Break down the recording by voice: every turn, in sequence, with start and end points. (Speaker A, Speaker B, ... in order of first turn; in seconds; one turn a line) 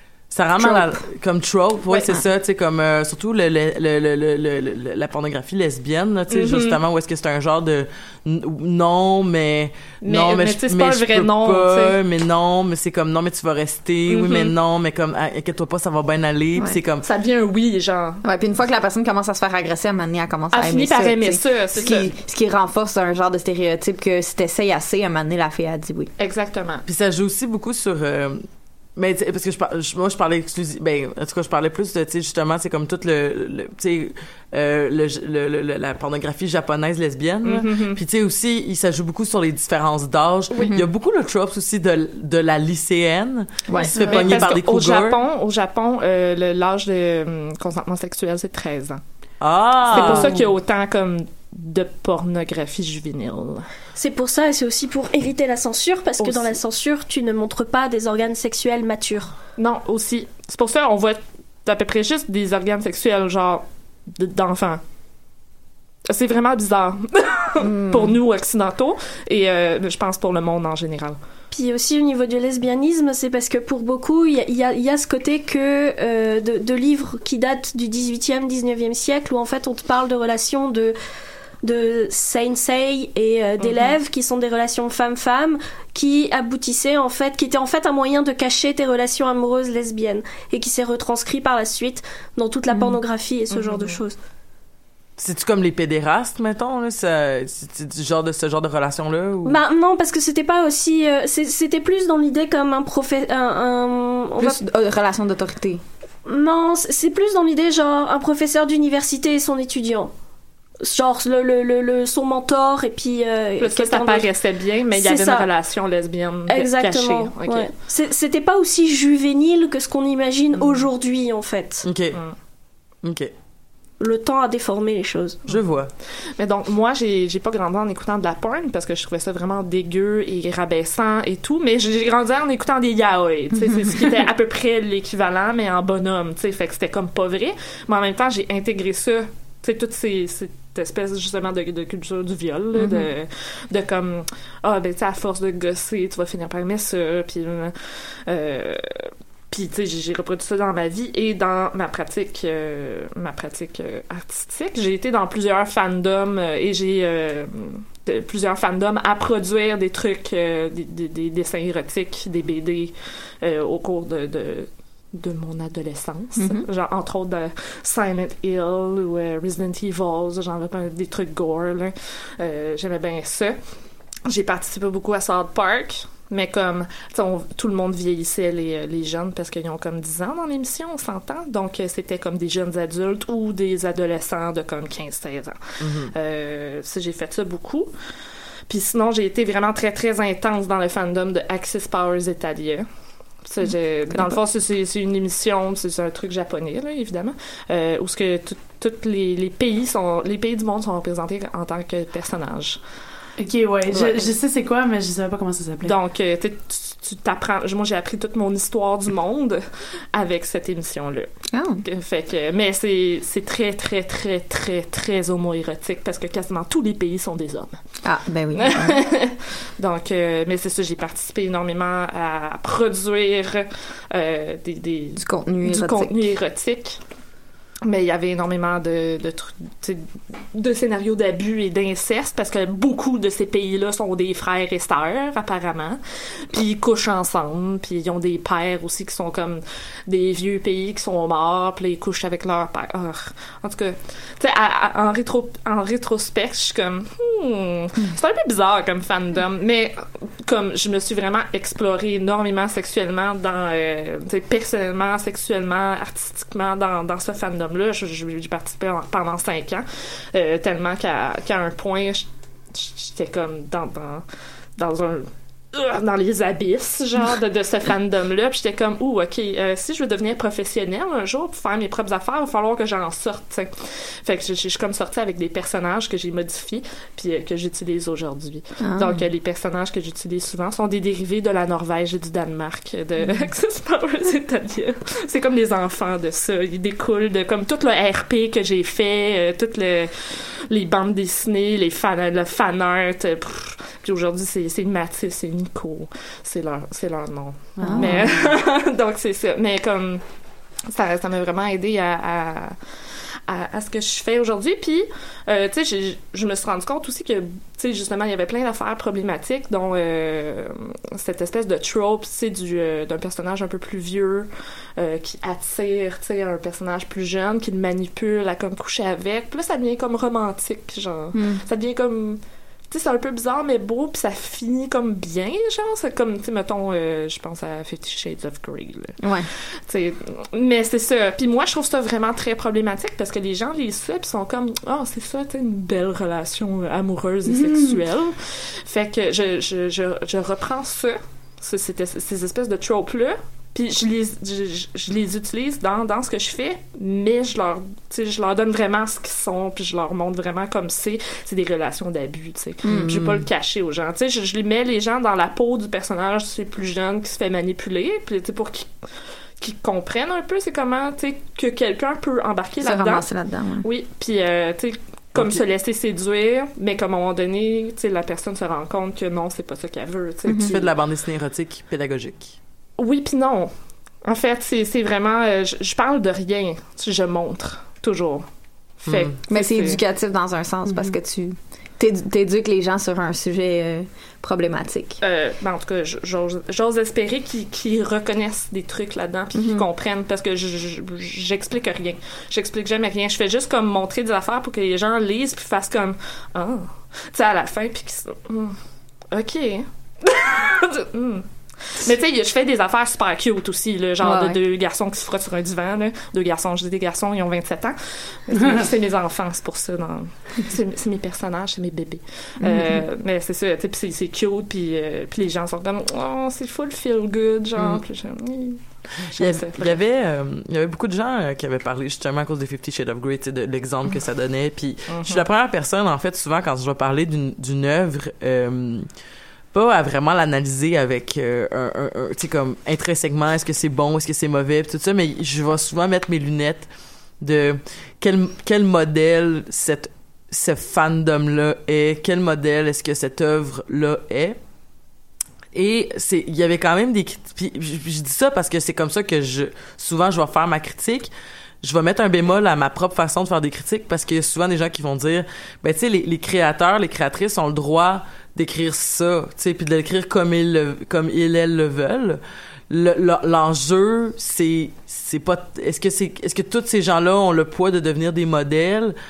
Speaker A: 0.3-17.1
Speaker B: 0.6-0.9
Speaker C: 6.3-6.8
Speaker C: 10.0-12.0
Speaker C: 14.1-14.5
Speaker C: 17.0-18.2
Speaker B: 18.2-26.1
Speaker C: 20.5-22.1
Speaker C: 26.2-26.9
Speaker A: 26.9-45.2
Speaker C: 37.4-38.0
Speaker B: 40.6-40.9
Speaker B: 43.7-44.2
Speaker C: 43.9-49.0
Speaker A: 49.4-50.4
Speaker C: 49.9-53.7
Speaker B: 49.9-50.3
Speaker D: 54.0-59.3
Speaker C: 56.2-56.5
Speaker C: 59.6-63.6
Speaker C: 64.2-64.8
Speaker C: 66.1-71.2
Speaker B: 67.6-68.2
Speaker D: 71.5-81.0
Speaker D: 81.6-94.2
Speaker C: 83.6-83.9
Speaker B: 92.7-93.0
Speaker C: 93.5-94.0
Speaker A: 95.2-99.6
Speaker D: 99.5-104.6
Speaker B: 104.4-105.8
Speaker D: 106.3-110.1
Speaker D: 110.8-114.3
Speaker C: 113.6-117.7
Speaker D: 114.9-115.5
Speaker D: 116.5-121.9
Speaker C: 120.5-120.8
Speaker A: 121.8-122.2
Speaker A: 123.0-123.3
Speaker D: 124.0-125.4
Speaker A: 125.5-125.9
Speaker C: 126.4-173.6
Speaker B: 142.8-143.1
Speaker B: 166.4-166.7
Speaker C: 174.3-187.9
Speaker A: 185.8-186.1
Speaker C: 188.7-192.9
Speaker C: 193.4-202.8
Speaker E: 203.4-205.9
Speaker C: 203.9-204.3
Speaker C: 205.8-211.3
Speaker B: 211.5-211.8
Speaker C: 211.8-217.8
Speaker B: 218.0-219.0
Speaker C: 218.5-227.0
Speaker B: 225.2-226.2
Speaker C: 227.8-264.2
Speaker C: 264.8-300.2
Speaker B: 278.8-279.2
Speaker E: 297.8-298.4
Speaker B: 297.8-298.2
Speaker C: 300.9-302.8
Speaker C: 303.5-359.1
Speaker B: 321.3-321.6
Speaker B: 329.2-329.5
Speaker E: 337.5-338.0
Speaker B: 352.8-353.1
Speaker A: 352.9-353.4
Speaker C: 359.6-363.3
Speaker B: 362.8-363.9
Speaker C: 363.8-370.9
Speaker A: 365.4-365.6
Speaker B: 370.5-370.7
Speaker A: 370.6-372.5
Speaker C: 373.0-373.7
Speaker C: 374.2-378.4
Speaker C: 379.0-380.0
Speaker A: 379.1-379.3
Speaker B: 379.5-385.2
Speaker E: 380.9-381.1
Speaker C: 385.2-398.8
Speaker B: 389.6-389.9
Speaker C: 399.3-420.0
Speaker B: 404.2-404.6
Speaker E: 408.5-408.8
Speaker B: 412.6-413.1
Speaker A: 417.8-418.0
Speaker A: 419.2-429.1
Speaker C: 425.1-425.5
Speaker A: 429.7-436.9
Speaker A: 437.4-444.6
Speaker A: 445.7-451.3
Speaker A: 451.8-469.1